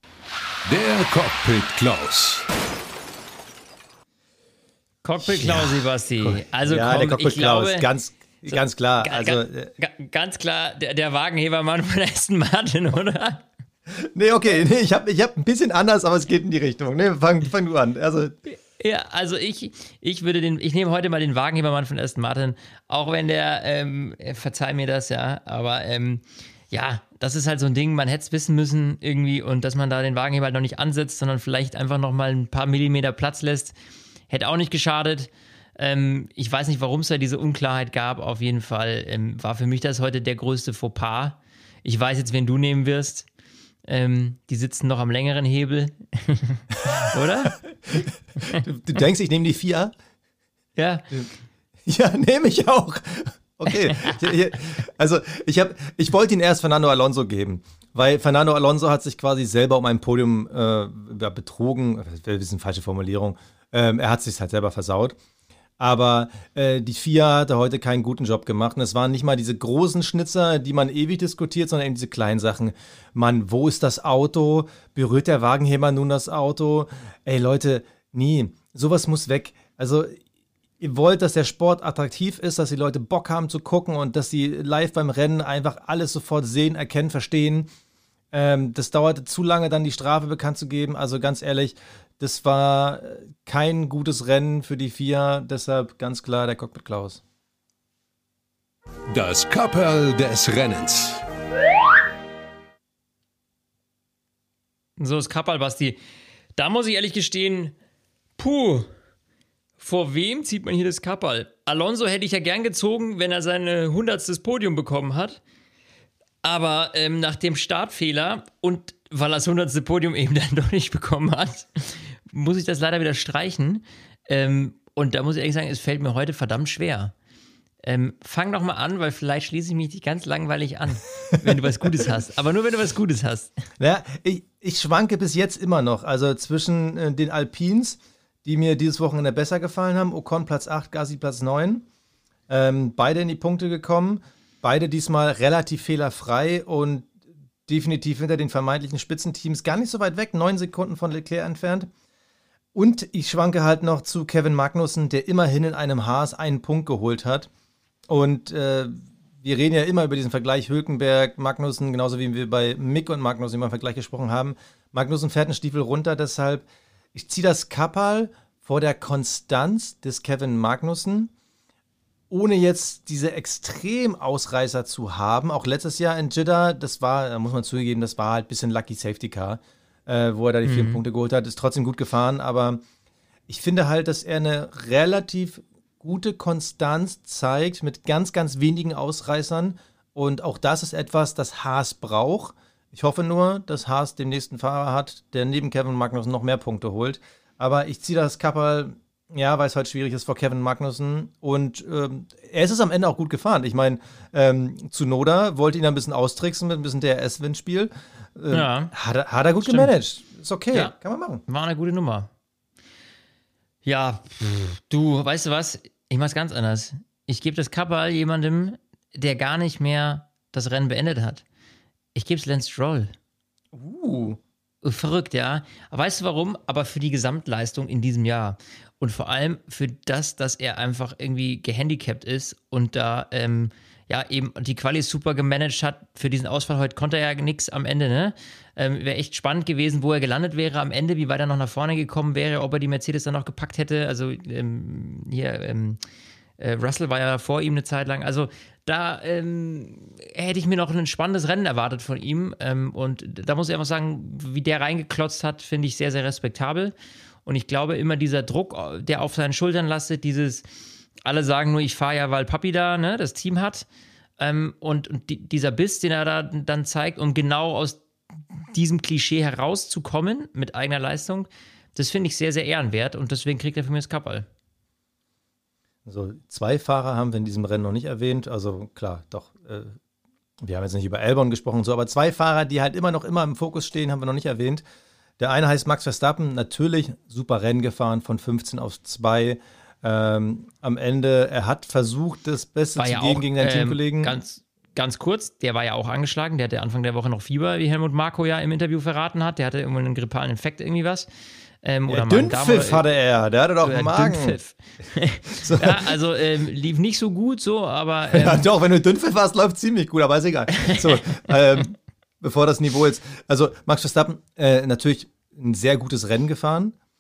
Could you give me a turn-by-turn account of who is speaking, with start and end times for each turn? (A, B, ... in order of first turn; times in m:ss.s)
0:00.7-0:02.4 A
0:05.0-0:07.9 B
0:05.2-0:09.7 C
0:08.5-0:13.4 B
0:13.9-0:18.4 C
0:18.5-0:33.7 B
0:34.3-0:43.3 B
0:43.9-0:47.6 B
0:47.9-0:49.9 C
0:50.8-0:51.1 B
0:51.8-1:05.2 C
0:53.7-0:54.2 B
1:05.8-1:20.2 C
1:20.8-1:27.7 C
1:28.3-1:37.2 C
1:39.1-1:41.2 A
1:45.0-1:46.0 B
1:46.6-1:47.7 B
1:48.4-1:48.9 B
1:49.8-1:55.4 B
1:56.4-2:07.1 B
2:07.8-2:13.5 B
2:13.8-2:21.8 C
2:22.5-2:27.1 C
2:27.7-2:31.9 C
2:32.7-2:37.5 C
2:38.1-2:51.3 C
2:52.3-3:02.8 C
3:00.6-3:01.0 B
3:03.5-3:31.4 C
3:28.5-3:28.9 B
3:29.6-3:29.9 B
3:31.5-3:32.3 B
3:33.8-3:41.4 B
3:42.1-3:43.1 B
3:43.7-3:44.4 C
3:44.8-4:06.0 B
4:06.6-4:16.9 B
4:17.4-4:20.6 B
4:21.2-4:23.9 B
4:24.4-4:28.0 B
4:28.5-4:34.5 B
4:36.0-4:40.0 C
4:40.6-4:44.8 C
4:45.4-4:54.4 C
4:53.0-5:01.3 B
5:01.8-5:03.0 B
5:02.1-5:04.6 C
5:03.8-5:08.6 B
5:05.5-5:06.2 C
5:08.3-5:17.0 C